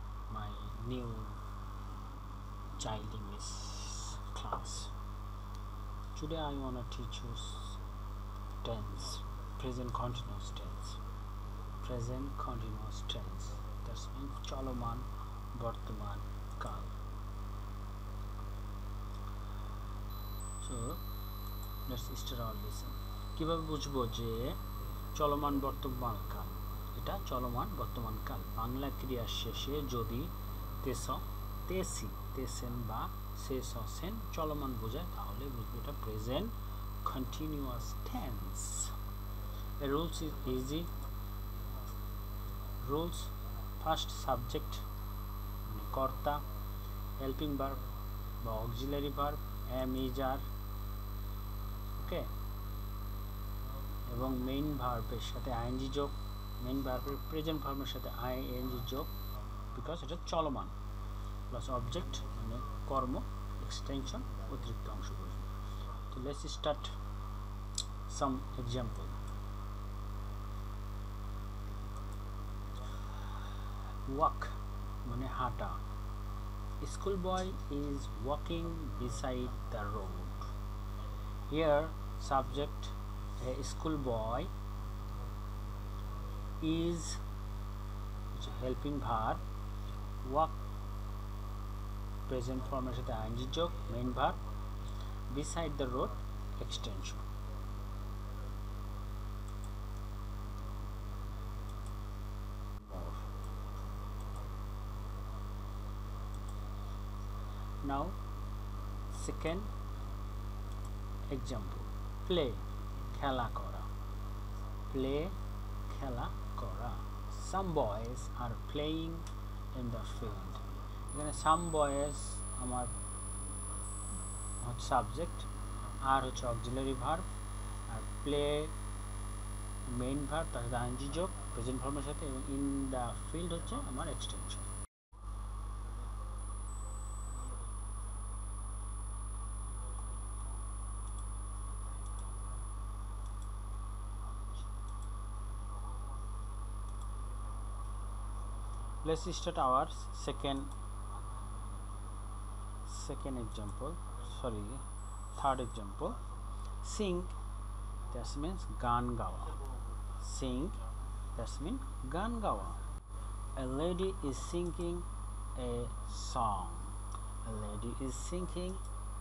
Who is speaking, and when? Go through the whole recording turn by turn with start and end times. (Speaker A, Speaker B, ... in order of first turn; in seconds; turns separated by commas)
Speaker A: 0.3-1.4, Speaker A: 2.8-4.9, Speaker A: 6.1-7.8, Speaker A: 8.6-11.0, Speaker A: 11.8-16.9, Speaker A: 20.6-21.0, Speaker A: 21.9-38.9, Speaker A: 39.8-40.9, Speaker A: 42.8-44.9, Speaker A: 45.6-46.5, Speaker A: 47.2-50.5, Speaker A: 52.0-52.3, Speaker A: 54.0-59.1, Speaker A: 59.7-60.7, Speaker A: 61.5-67.0, Speaker A: 68.1-69.2, Speaker A: 74.0-75.8, Speaker A: 76.8-80.5, Speaker A: 81.3-84.5, Speaker A: 86.6-87.2, Speaker A: 88.3-89.4, Speaker A: 90.2-90.6, Speaker A: 92.3-94.4, Speaker A: 95.3-97.2, Speaker A: 107.8-108.2, Speaker A: 109.1-109.7, Speaker A: 111.3-113.9, Speaker A: 114.9-122.9, Speaker A: 124.6-127.3, Speaker A: 127.9-128.7, Speaker A: 129.8-134.7, Speaker A: 149.0-150.7, Speaker A: 152.8-156.2, Speaker A: 156.8-157.3, Speaker A: 158.1-159.6, Speaker A: 160.2-160.8, Speaker A: 161.3-162.8, Speaker A: 163.5-168.8